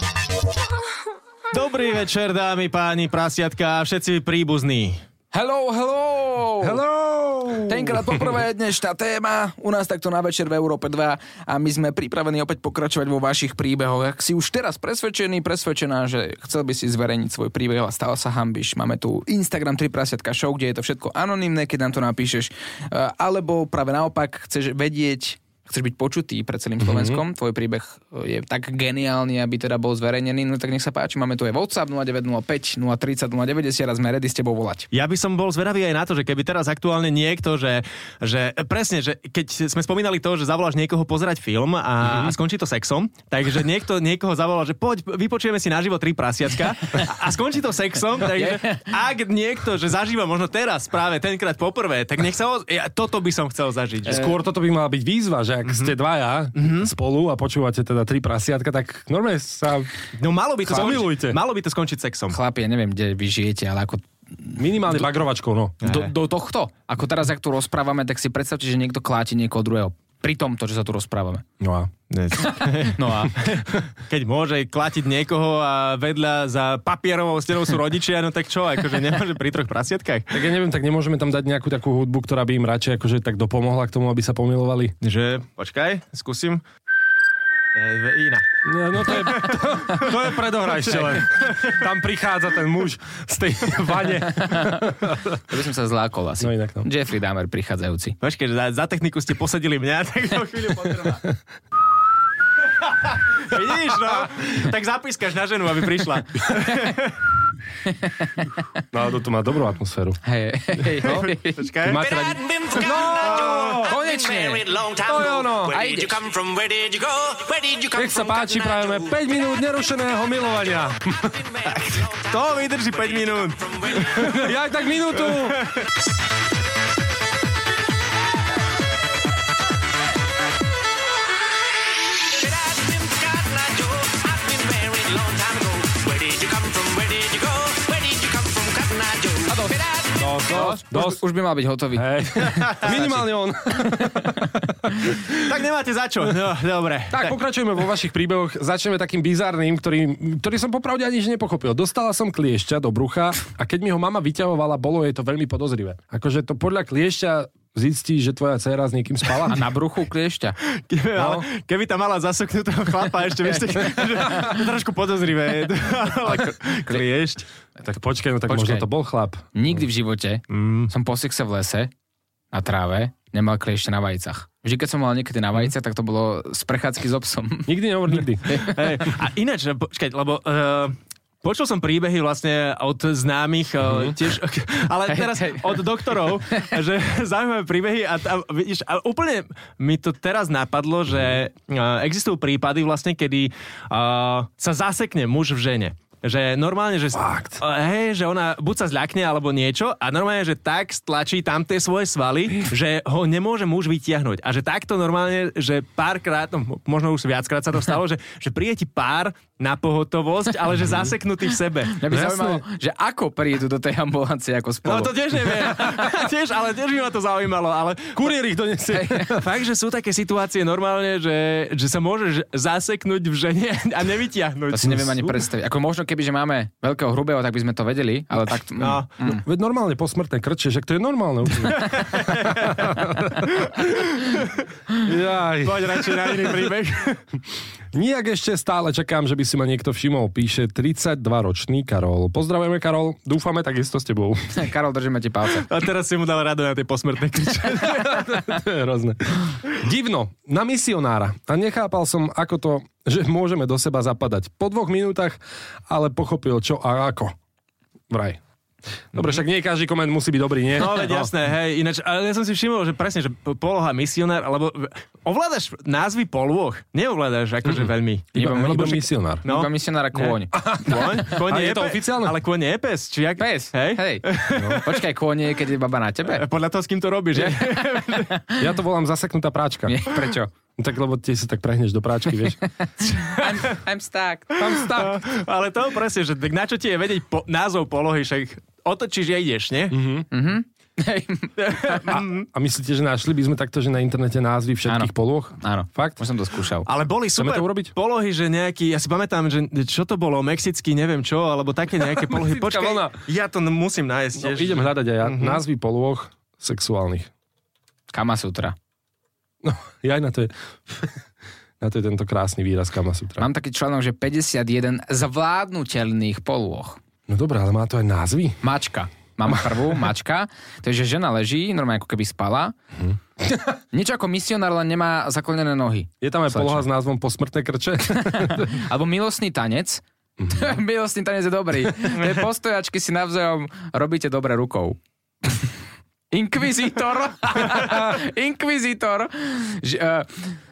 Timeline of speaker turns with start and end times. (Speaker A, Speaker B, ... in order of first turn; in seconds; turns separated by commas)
Speaker A: 1.5-5.0, Speaker B: 5.3-6.8, Speaker C: 6.6-8.3, Speaker B: 7.7-34.9, Speaker C: 26.8-27.2, Speaker A: 34.9-54.3, Speaker C: 42.0-42.3, Speaker B: 48.3-48.9, Speaker C: 54.1-59.9, Speaker A: 55.6-55.9, Speaker A: 56.5-56.9, Speaker A: 60.1-62.4, Speaker C: 60.6-61.4, Speaker B: 62.3-64.6, Speaker C: 64.6-65.9, Speaker B: 65.8-71.4, Speaker A: 65.8-66.1, Speaker C: 71.6-71.9, Speaker A: 72.1-80.4, Speaker B: 72.4-73.4, Speaker C: 80.3-84.9, Speaker A: 85.0-86.6, Speaker A: 87.7-88.4, Speaker C: 88.6-95.4, Speaker A: 89.0-89.6, Speaker A: 90.7-91.8, Speaker B: 95.5-98.2, Speaker C: 96.4-96.9, Speaker A: 98.2-101.2, Speaker A: 102.8-107.2, Speaker B: 107.9-108.3, Speaker C: 108.9-110.2, Speaker B: 110.2-111.6, Speaker C: 111.0-111.2, Speaker A: 111.0-112.0, Speaker C: 111.8-113.9, Speaker D: 111.9-119.2, Speaker A: 113.2-113.7, Speaker B: 113.8-114.6, Speaker C: 115.0-115.8, Speaker B: 115.7-116.2, Speaker C: 117.9-121.3, Speaker D: 121.2-124.3, Speaker A: 121.7-124.5, Speaker C: 124.0-125.6, Speaker A: 125.2-125.8, Speaker D: 132.3-140.4, Speaker B: 139.5-139.8, Speaker C: 140.2-141.2, Speaker B: 140.4-143.2, Speaker C: 141.9-145.5, Speaker A: 142.6-143.0, Speaker A: 145.3-147.3, Speaker C: 147.1-159.6, Speaker B: 159.5-160.6, Speaker A: 160.8-167.5, Speaker C: 161.1-161.4, Speaker B: 163.7-164.0, Speaker B: 166.2-167.0, Speaker C: 167.8-169.8, Speaker B: 168.5-168.8, Speaker B: 169.5-171.9, Speaker A: 170.5-170.9, Speaker B: 172.5-177.7, Speaker C: 177.7-178.6, Speaker A: 178.6-212.0, Speaker C: 183.8-184.2, Speaker B: 185.1-185.9, Speaker C: 197.1-197.6, Speaker B: 211.9-215.1, Speaker C: 212.1-212.6, Speaker A: 214.8-218.3, Speaker C: 218.1-219.4, Speaker B: 218.9-219.3, Speaker A: 219.3-225.1, Speaker B: 224.7-229.4, Speaker C: 224.8-225.3, Speaker A: 228.8-229.1, Speaker C: 229.2-233.9, Speaker A: 231.7-232.9, Speaker A: 233.6-234.6, Speaker C: 235.0-236.7, Speaker A: 235.6-237.2, Speaker C: 237.9-244.6, Speaker B: 244.5-245.7, Speaker A: 245.6-248.4, Speaker C: 247.8-257.3, Speaker C: 258.1-258.4, Speaker C: 259.1-261.3, Speaker A: 260.7-268.9, Speaker C: 267.7-269.4, Speaker B: 268.4-271.0, Speaker A: 269.4-275.0, Speaker C: 270.5-272.3, Speaker B: 273.4-274.2, Speaker C: 274.5-274.8, Speaker B: 274.8-276.4, Speaker A: 276.3-278.3, Speaker B: 277.3-278.6, Speaker C: 278.6-280.1, Speaker B: 279.9-280.5, Speaker C: 280.8-282.6, Speaker B: 282.8-284.6, Speaker C: 284.6-285.2, Speaker A: 284.6-289.9, Speaker C: 289.9-290.3, Speaker B: 290.3-292.0, Speaker A: 291.6-292.4, Speaker C: 292.1-296.2, Speaker B: 294.9-296.9, Speaker A: 296.9-305.6, Speaker C: 297.4-297.9, Speaker C: 302.2-303.1, Speaker C: 304.4-307.3, Speaker B: 308.1-308.7, Speaker C: 309.6-311.1, Speaker C: 311.8-313.4, Speaker B: 313.4-317.0, Speaker C: 317.3-318.6, Speaker B: 318.6-322.8, Speaker C: 322.9-323.6, Speaker B: 323.9-326.8, Speaker C: 326.2-328.8, Speaker B: 328.1-335.6, Speaker C: 330.4-330.7, Speaker B: 336.3-340.5, Speaker C: 337.8-338.1